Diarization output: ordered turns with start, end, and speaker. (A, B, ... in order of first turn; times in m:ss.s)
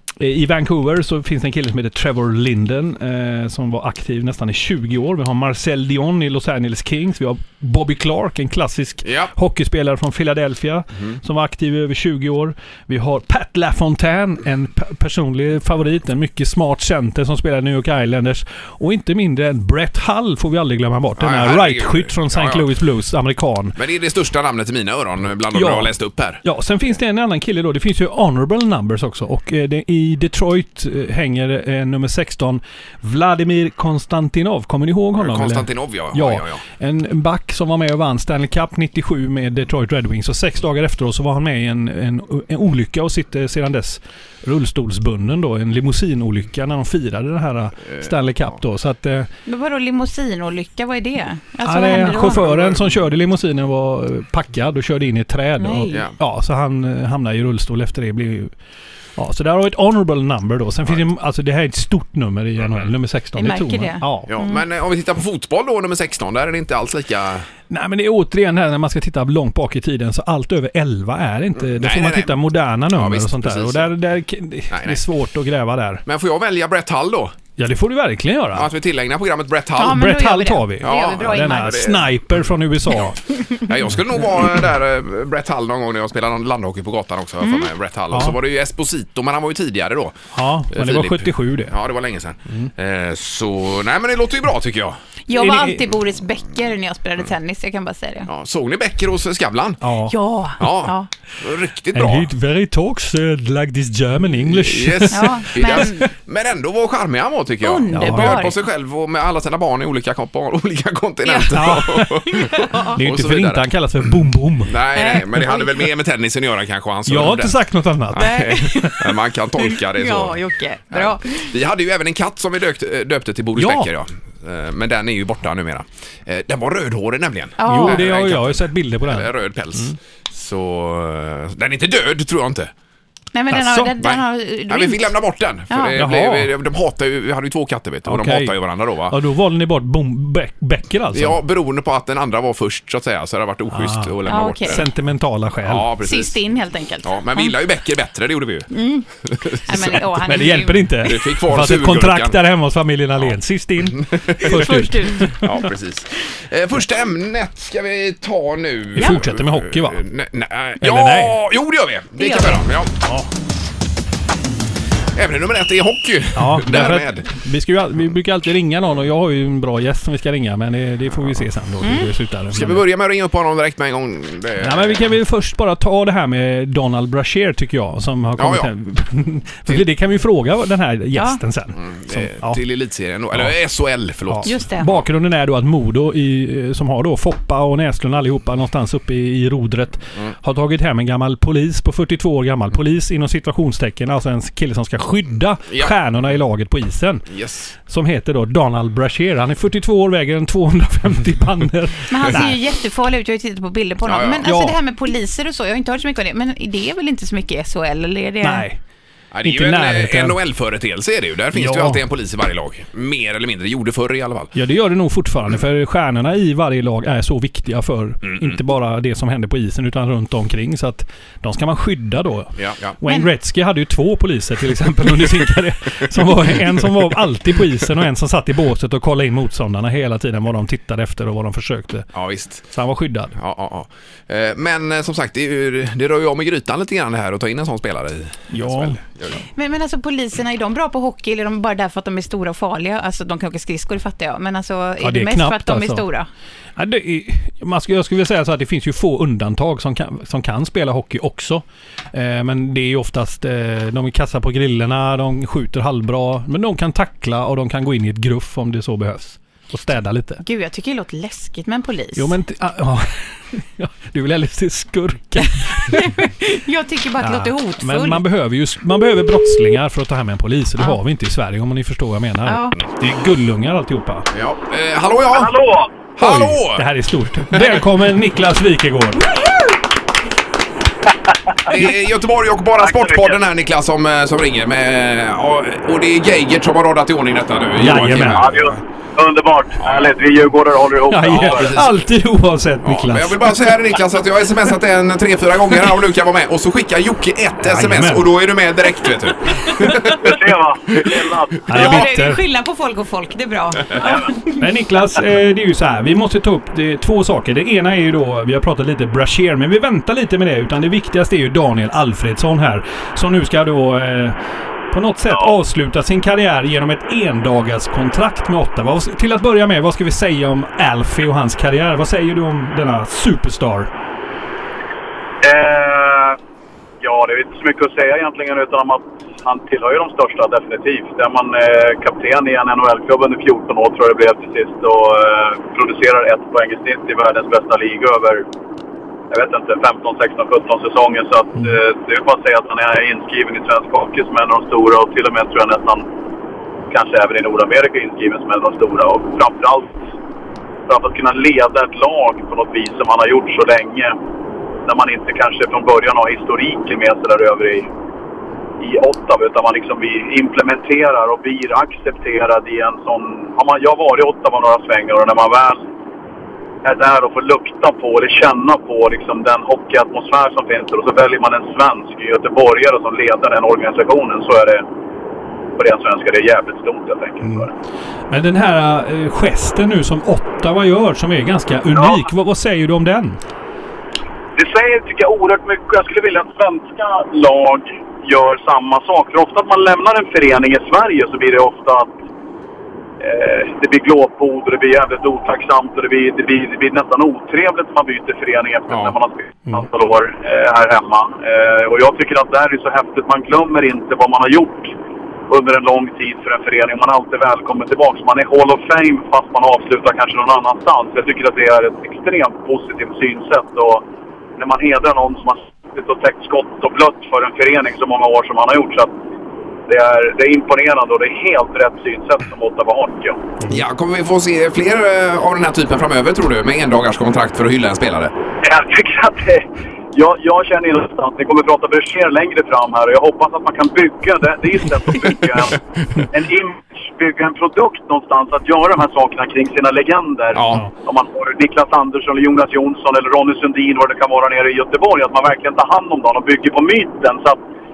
0:00.2-0:23.8 A
0:09.0-0:09.3 B
0:21.2-0:22.7 B
0:23.8-0:26.4 B
0:25.5-0:25.9 A
0:26.4-0:49.3 A
0:35.2-0:36.6 B
0:49.5-0:52.4 C
0:51.6-0:58.5 A
0:52.2-0:53.0 B
0:55.6-0:56.0 C
0:59.2-1:04.4 A
1:03.4-1:04.6 C
1:04.3-1:07.5 B
1:07.7-1:16.0 A
1:11.6-1:12.4 B
1:12.9-1:13.9 B
1:14.7-1:15.0 B
1:16.1-1:17.4 B
1:17.6-1:18.7 A
1:18.5-1:20.1 B
1:19.8-1:22.0 C
1:19.8-1:23.2 A
1:20.8-1:22.0 B
1:23.6-1:35.0 B
1:27.4-1:27.7 C
1:30.3-1:31.7 A
1:35.3-1:38.3 C
1:35.3-1:35.8 A
1:38.3-1:39.8 B
1:39.8-1:40.2 A
1:40.1-1:41.1 C
1:40.6-1:42.3 B
1:42.0-1:45.8 A
1:44.4-1:54.1 B
1:45.1-1:46.1 C
1:47.6-1:48.5 C
1:47.9-1:48.5 A
1:51.2-1:51.6 C
1:51.5-1:52.2 A
1:52.3-1:53.0 C
1:52.9-1:54.8 A
1:54.7-1:57.6 B
1:54.9-1:55.8 C
1:57.1-1:59.0 A
1:58.1-2:12.7 B
1:58.2-2:01.5 C
2:03.6-2:03.9 A
2:07.6-2:08.0 C
2:07.6-2:09.9 A
2:13.3-2:15.1 C
2:13.5-2:13.9 A
2:14.0-2:19.2 B
2:15.9-2:16.5 A
2:18.1-2:18.6 A
2:19.1-2:21.4 A
2:21.1-2:24.8 B
2:23.7-2:25.9 A
2:24.3-2:24.8 C
2:25.6-2:26.4 B
2:26.0-2:27.5 C
2:27.0-2:28.7 B
2:28.7-2:29.1 C
2:29.2-2:30.5 B
2:29.6-2:30.9 C
2:30.2-2:35.4 A
2:31.0-2:32.4 B
2:33.9-2:34.7 B
2:34.4-2:35.6 C
2:35.3-2:42.9 B
2:38.9-2:40.0 A
2:40.8-2:41.4 A
2:42.2-2:42.6 C
2:43.0-2:43.3 A
2:45.2-2:47.3 B
2:46.4-2:52.8 A
2:51.8-2:52.1 C
2:52.5-2:55.0 B
2:54.6-3:02.6 A
2:58.4-2:58.7 B
3:01.2-3:01.4 C
3:01.8-3:04.6 B
3:04.3-3:17.3 A
3:04.4-3:04.9 C
3:17.3-3:17.7 B
3:17.9-3:22.6 A
3:22.1-3:28.6 C
3:24.0-3:24.5 B
3:24.4-3:24.8 A
3:28.4-3:28.8 A
3:29.3-3:34.5 B
3:29.4-3:30.4 A
3:31.5-3:32.0 A
3:34.5-3:52.1 A
3:38.2-3:38.6 B
3:42.6-3:42.9 B
3:52.1-3:52.7 B
3:52.7-3:53.4 A
3:53.4-3:59.4 B
3:58.5-3:59.4 A
3:59.5-4:06.3 C
4:05.0-4:06.0 A
4:06.8-4:20.4 A
4:20.4-4:22.3 C
4:22.2-4:26.2 A
4:25.9-4:28.2 C
4:27.2-4:34.3 A
4:32.4-4:32.8 C
4:34.3-4:35.6 B
4:35.3-4:35.9 D
4:36.2-4:37.8 B
4:36.2-4:39.3 A
4:39.2-4:39.8 C
4:41.6-4:48.8 B
4:42.8-4:43.3 D
4:47.8-4:48.4 A
4:48.2-4:51.8 D
4:49.8-4:50.1 B
4:51.1-4:53.5 A
4:51.3-4:51.9 B
4:52.8-5:00.4 B
4:57.6-4:58.3 A
5:00.1-5:02.0 D
5:01.7-5:02.4 A
5:01.7-5:04.6 C
5:04.6-5:14.4 A
5:14.9-5:23.9 A
5:25.4-5:26.4 D
5:27.0-5:38.4 D
5:39.3-5:46.1 D
5:46.9-5:50.0 D
5:50.9-5:54.2 D
5:54.9-5:57.9 D
5:58.8-6:05.8 D
6:06.8-6:14.8 D
6:15.8-6:17.7 D
6:17.4-6:17.7 A
6:18.3-6:23.4 A
6:24.6-6:32.1 D
6:33.2-6:44.9 D
6:45.5-6:54.0 D
6:54.6-6:59.1 D
6:59.9-7:03.4 D
7:03.7-7:08.3 B
7:08.6-7:27.6 D
7:20.5-7:20.8 B